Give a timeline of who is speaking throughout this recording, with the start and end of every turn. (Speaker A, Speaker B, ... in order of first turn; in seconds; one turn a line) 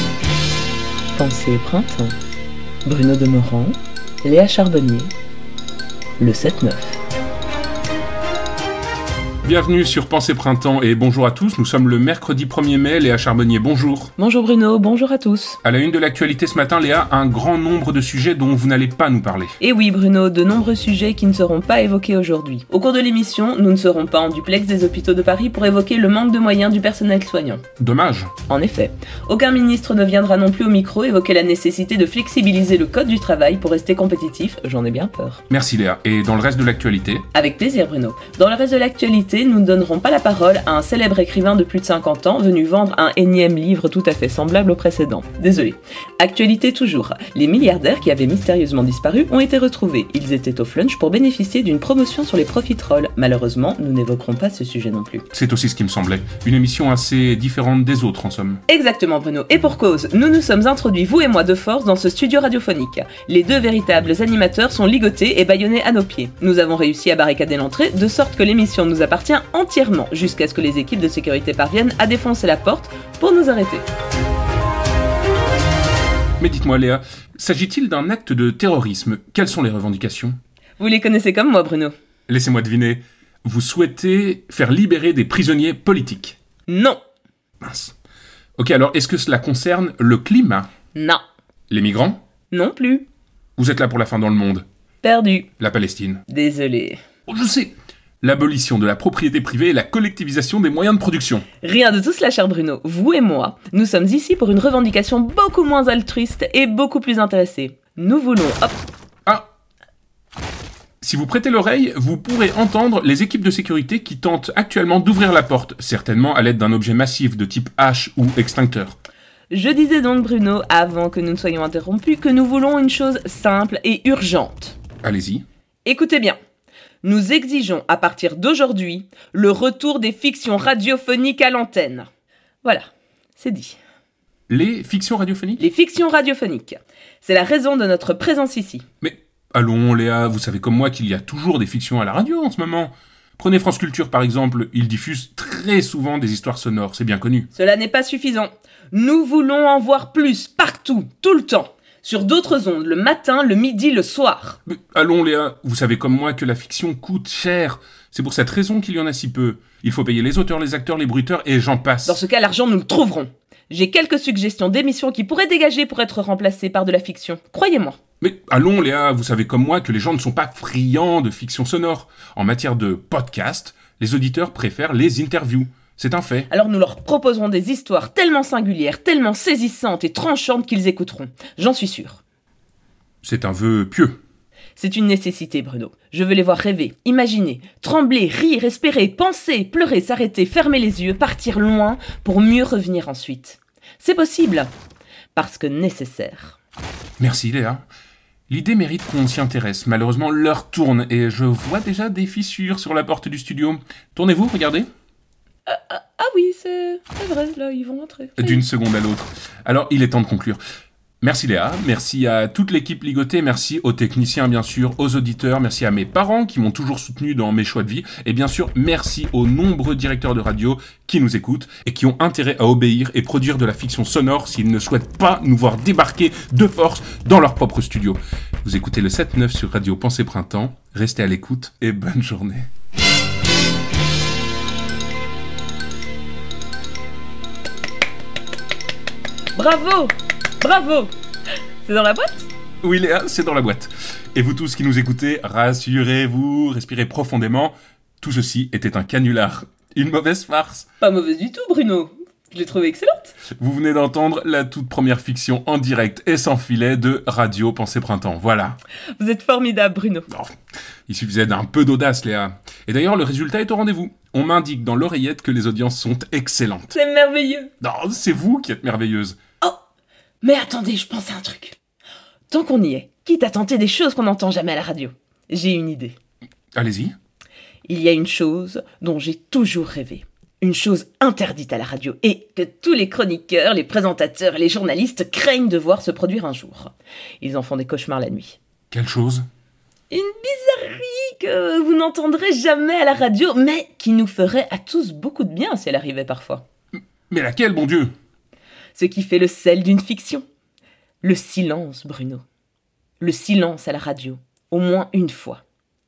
Speaker A: 1.2-2.2
Speaker A: 2.9-5.1
Speaker A: 6.2-7.0
Speaker B: 9.4-14.1
Speaker A: 14.2-15.6
Speaker B: 15.6-19.6
Speaker A: 19.6-27.6
Speaker B: 27.8-28.3
Speaker A: 28.5-35.4
Speaker B: 35.5-37.3
Speaker A: 37.3-55.2
Speaker B: 55.3-58.6
Speaker A: 58.7-73.9
Speaker B: 76.4-80.4
Speaker A: 80.8-82.0
Speaker B: 82.3-86.4
Speaker A: 86.7-87.0
Speaker B: 87.6-88.0
Speaker B: 88.6-90.7
Speaker A: 91.0-91.2
Speaker B: 91.7-92.2
Speaker A: 92.5-93.0
Speaker B: 93.6-94.7
Speaker A: 95.0-95.5
Speaker B: 95.6-96.2
Speaker A: 96.3-97.0
Speaker B: 97.3-101.5
Speaker A: 101.6-108.8
Speaker B: 111.0-119.0
Speaker A: 119.5-124.8
Speaker B: 125.0-125.4
Speaker A: 125.8-126.4
Speaker A: 127.0-132.1
Speaker A: 133.4-133.8
Speaker B: 134.5-135.6
Speaker A: 135.6-138.8
Speaker B: 139.0-147.5
Speaker A: 147.5-154.6
Speaker B: 154.7-162.2
Speaker A: 162.1-168.0
Speaker B: 168.2-176.5
Speaker A: 176.5-182.2
Speaker B: 183.2-184.2
Speaker A: 184.8-194.7
Speaker A: 195.3-196.6
Speaker B: 197.2-197.8
Speaker B: 198.5-204.9
Speaker A: 205.7-208.6
Speaker B: 208.4-210.6
Speaker B: 211.2-232.7
Speaker A: 239.6-241.1
Speaker A: 241.8-242.5
Speaker B: 242.8-250.9
Speaker A: 251.0-253.4
Speaker B: 253.5-258.8
Speaker A: 259.2-260.3
Speaker B: 261.1-267.0
Speaker A: 266.9-267.7
Speaker B: 267.8-269.4
Speaker A: 270.4-271.8
Speaker A: 272.5-276.2
Speaker B: 276.7-277.1
Speaker A: 277.9-288.6
Speaker B: 288.9-289.4
Speaker A: 290.1-296.6
Speaker B: 297.3-298.1
Speaker A: 298.9-300.5
Speaker A: 301.2-302.4
Speaker A: 303.2-305.6